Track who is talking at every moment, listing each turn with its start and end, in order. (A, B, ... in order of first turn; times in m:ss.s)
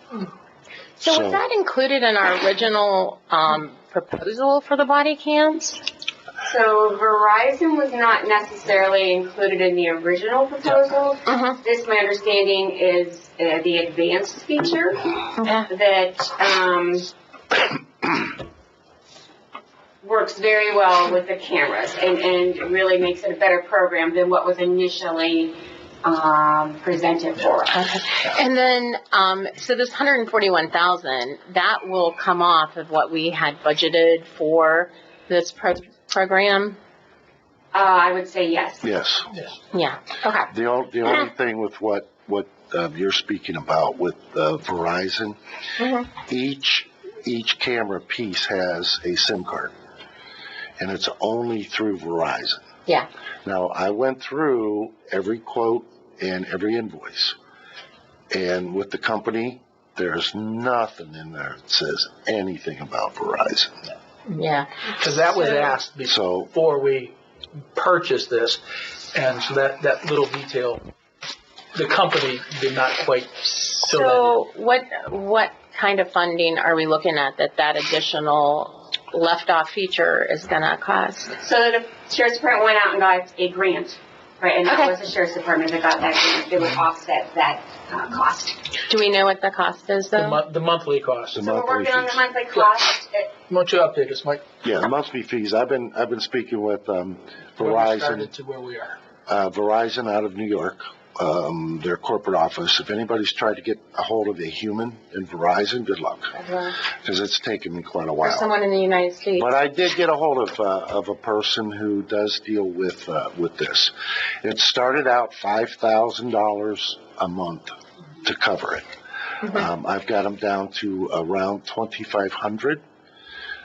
0:01.0-0:05.8 A
0:01.0-0:01.4 B
0:06.4-0:15.1 C
0:11.3-0:11.6 A
0:15.4-0:15.7 A
0:15.6-0:17.1 C
0:20.0-0:27.8 C
0:27.7-0:36.8 A
0:37.7-0:38.8 C
0:38.8-0:39.3 B
0:39.7-0:40.5 A
0:40.5-0:45.4 B
0:45.8-0:46.1 A
0:46.2-0:49.7 B
0:50.8-0:52.7 B
0:53.4-0:57.4 B
0:58.3-1:03.8 B
1:04.4-1:04.9 A
1:05.0-1:07.2 D
1:06.0-1:06.5 B
1:07.8-1:08.6 D
1:09.1-1:10.9 D
1:11.8-1:14.4 D
1:13.8-1:21.4 A
1:21.4-1:28.6 C
1:24.7-1:24.9 A
1:28.9-1:30.4 A
1:30.1-1:31.4 D
1:31.3-1:32.2 B
1:31.4-1:33.3 C
1:33.5-1:34.4 D
1:34.6-1:38.3 B
1:37.6-1:39.0 D
1:39.3-1:46.4 B
1:46.3-1:46.8 A
1:46.9-1:48.5 B
1:48.2-1:49.5 A
1:49.4-1:58.9 B
1:59.4-2:02.8 B